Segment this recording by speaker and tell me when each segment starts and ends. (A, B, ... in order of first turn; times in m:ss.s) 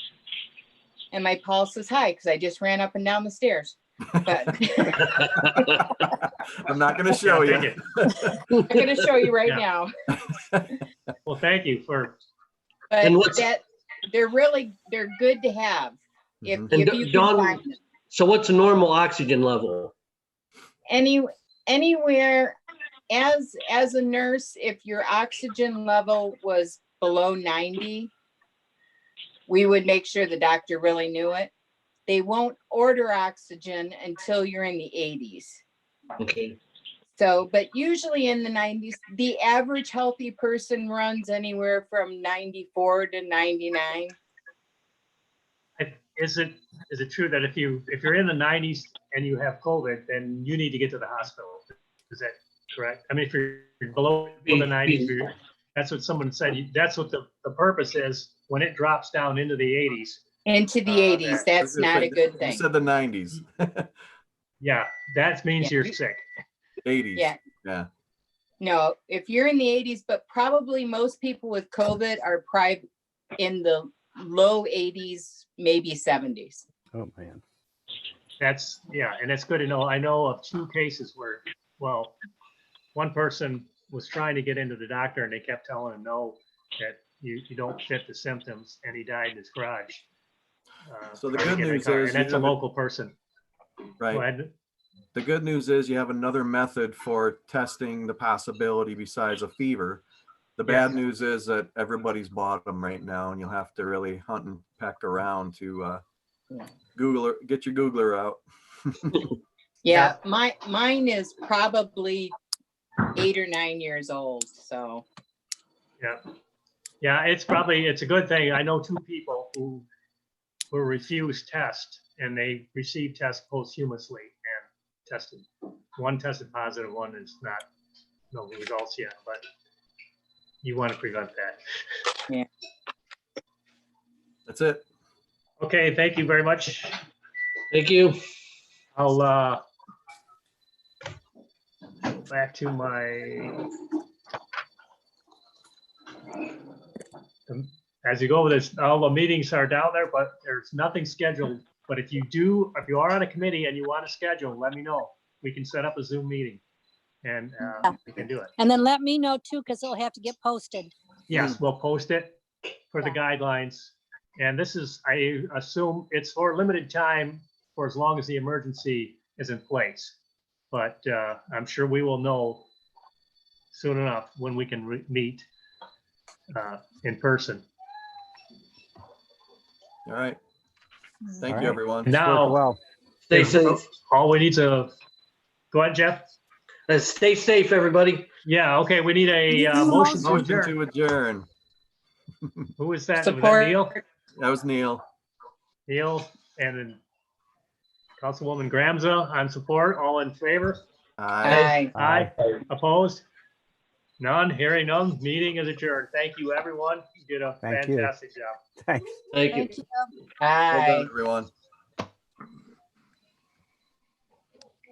0:01.1-0:05.8 A
0:05.0-0:06.0 B
0:06.1-0:08.4 C
0:07.2-0:07.8 D
0:08.5-0:08.9 B
0:08.7-0:09.9 A
0:10.3-0:10.8 C
0:11.2-0:12.2 D
0:12.9-0:17.8 A
0:13.0-0:13.4 B
0:16.4-0:16.7 C
0:16.7-0:19.9 B
0:20.9-0:22.6 A
0:23.1-0:28.1 A
0:29.5-0:31.5 A
0:32.1-0:35.6 A
0:36.2-0:36.6 B
0:37.2-0:44.1 A
0:45.8-1:00.2 D
0:54.5-0:55.1 B
1:00.4-1:02.6 A
1:00.9-1:01.4 D
1:01.5-1:03.9 C
1:04.6-1:06.2 D
1:05.6-1:05.9 A
1:06.8-1:07.9 C
1:08.6-1:12.8 A
1:13.4-1:16.6 A
1:16.9-1:17.4 E
1:18.4-1:22.2 D
1:22.9-1:30.0 D
1:30.8-1:33.1 D
1:31.2-1:32.6 C
1:34.0-1:34.2 C
1:34.1-1:34.5 D
1:35.1-1:40.0 C
1:40.6-1:46.0 C
1:40.6-1:41.0 D
1:46.9-1:49.2 C
1:49.8-1:52.3 A
1:49.9-1:50.1 D
1:53.1-1:55.0 A
1:57.0-1:59.8 D
2:00.7-2:07.7 D
2:08.3-2:09.4 D
2:10.6-2:11.6 D
2:14.5-2:14.8 C
2:15.6-2:17.0 D
2:17.7-2:18.2 B
2:19.0-2:19.6 D
2:22.1-2:23.6 D
2:27.5-2:36.6 D
2:37.2-2:38.5 D
2:38.6-2:40.9 F
2:41.3-2:42.4 D
2:41.3-2:41.6 C
2:42.9-2:50.2 D
2:50.7-2:52.7 D
2:53.7-2:55.4 D
2:56.5-2:57.6 D
3:00.0-3:00.4 C
3:01.4-3:02.2 C
3:01.5-3:02.8 E
3:02.0-3:02.6 D
3:03.3-3:03.8 B
3:03.3-3:04.9 D
3:05.7-3:06.2 D
3:06.9-3:08.3 B
3:08.4-3:10.7 D
3:09.5-3:10.3 F
3:10.2-3:11.5 C
3:12.8-3:14.0 D
3:13.2-3:14.0 A
3:14.4-3:15.0 C
3:15.9-3:17.0 D
3:18.2-3:20.8 D
3:21.2-3:21.8 C
3:21.4-3:21.9 A
3:21.9-3:22.3 E
3:22.0-3:23.2 D
3:24.2-3:28.6 D
3:27.6-3:28.1 E
3:28.8-3:29.1 E
3:29.3-3:29.7 B
3:29.5-3:30.1 F
3:30.4-3:31.1 A
3:30.7-3:31.5 C